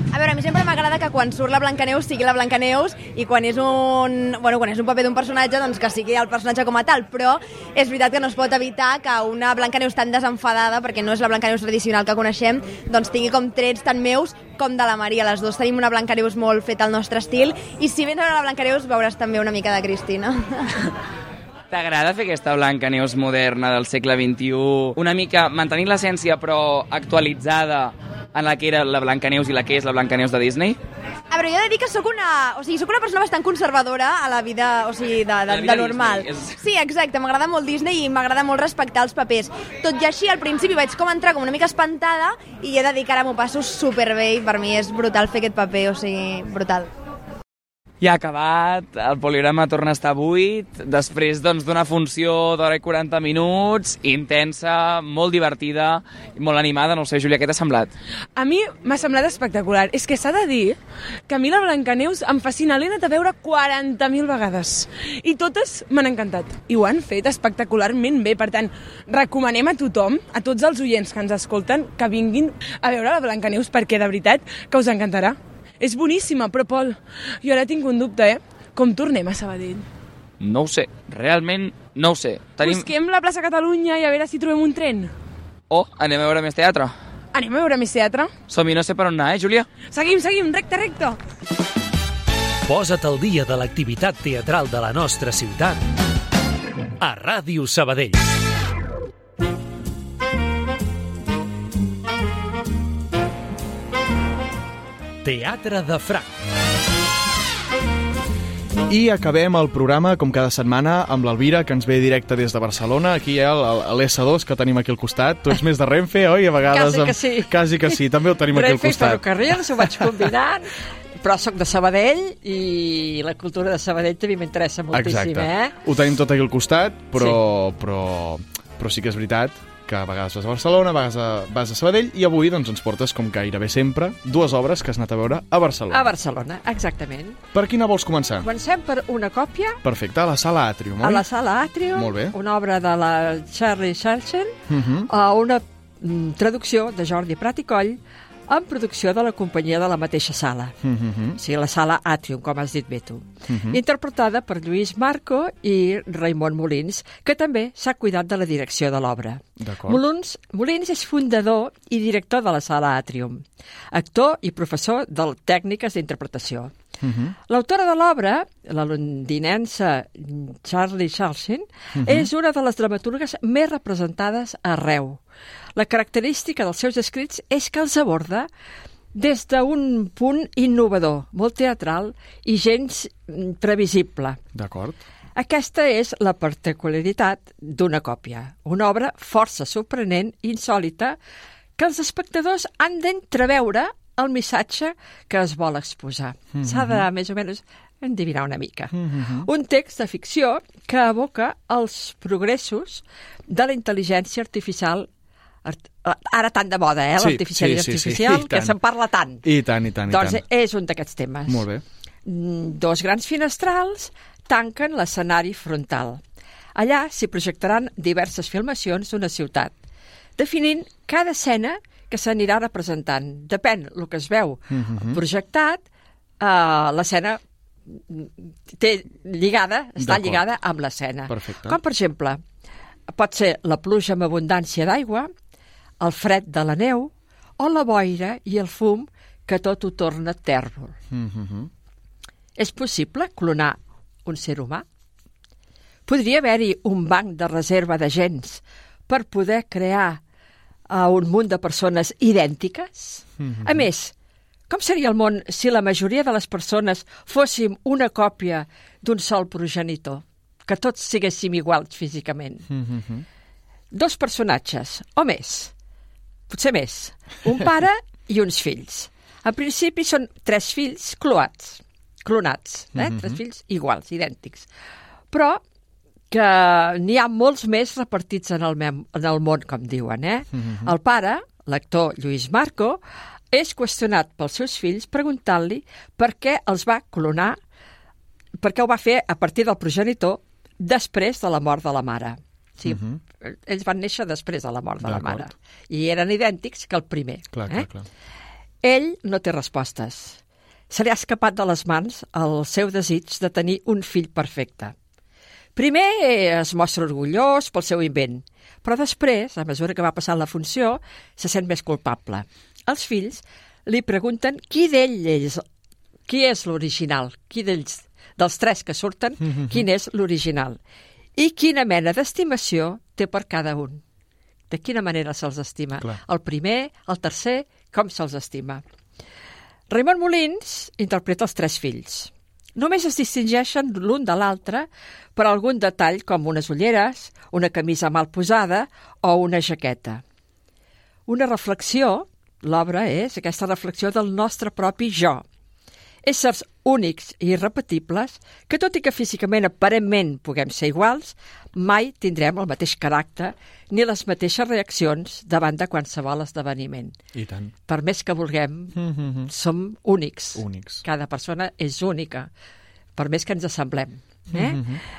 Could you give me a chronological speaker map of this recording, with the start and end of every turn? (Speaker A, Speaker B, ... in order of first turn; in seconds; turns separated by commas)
Speaker A: 0.1-20.7, Speaker B: 21.7-30.8, Speaker A: 31.3-46.9, Speaker B: 35.5-36.6, Speaker B: 48.0-57.9, Speaker C: 58.4-60.8, Speaker C: 61.3-79.9, Speaker B: 80.4-82.9, Speaker C: 82.6-85.1, Speaker B: 85.7-86.9, Speaker C: 87.3-88.3, Speaker B: 88.5-89.7, Speaker C: 89.8-91.2, Speaker D: 92.7-95.8, Speaker D: 97.0-98.2, Speaker D: 105.2-106.3, Speaker E: 108.9-120.3, Speaker F: 116.7-118.0, Speaker F: 118.5-125.7, Speaker E: 124.9-136.1, Speaker F: 135.9-137.4, Speaker E: 137.5-138.5, Speaker F: 138.4-139.8, Speaker E: 139.8-141.3, Speaker F: 141.0-144.6, Speaker E: 141.9-142.3, Speaker E: 144.7-145.1, Speaker F: 145.1-148.0, Speaker F: 148.5-150.8, Speaker E: 150.8-151.4, Speaker F: 151.4-166.8, Speaker E: 153.5-153.8, Speaker E: 159.6-160.0, Speaker E: 167.0-167.3, Speaker F: 167.5-175.2, Speaker E: 172.0-172.3, Speaker F: 175.8-178.5, Speaker F: 179.1-184.4, Speaker E: 184.5-185.0, Speaker F: 185.4-191.2, Speaker F: 191.8-205.1, Speaker E: 196.5-197.1, Speaker E: 198.9-199.5, Speaker F: 205.7-209.4, Speaker E: 207.2-208.8, Speaker E: 209.4-210.4, Speaker F: 210.1-211.7, Speaker E: 211.5-211.8, Speaker F: 212.3-216.2, Speaker F: 216.8-219.7, Speaker F: 220.4-225.8, Speaker E: 224.7-225.2, Speaker F: 226.4-232.4, Speaker E: 230.0-230.5, Speaker E: 231.3-231.8, Speaker F: 233.2-235.3, Speaker F: 236.0-241.0, Speaker E: 241.1-241.7, Speaker F: 242.6-244.8, Speaker F: 246.1-250.2, Speaker F: 250.9-254.1, Speaker E: 253.4-253.9, Speaker F: 254.7-262.7, Speaker E: 262.7-263.2, Speaker F: 263.9-265.7, Speaker F: 266.5-274.7, Speaker E: 272.9-273.4, Speaker F: 275.3-275.6, Speaker F: 276.3-283.0, Speaker E: 280.5-280.9, Speaker F: 283.5-287.6, Speaker F: 288.6-297.9, Speaker E: 292.9-293.2, Speaker E: 295.0-295.5, Speaker E: 297.5-298.1, Speaker F: 298.8-304.9, Speaker F: 305.8-315.6, Speaker F: 316.3-320.8, Speaker E: 319.4-319.8, Speaker F: 321.4-324.0, Speaker F: 324.7-328.8, Speaker F: 329.9-340.2, Speaker F: 341.3-345.4, Speaker F: 346.3-357.2, Speaker E: 357.3-357.8, Speaker F: 357.9-358.9, Speaker E: 359.0-359.5, Speaker F: 359.5-362.5, Speaker E: 360.6-361.1, Speaker F: 363.2-364.9, Speaker E: 364.5-365.0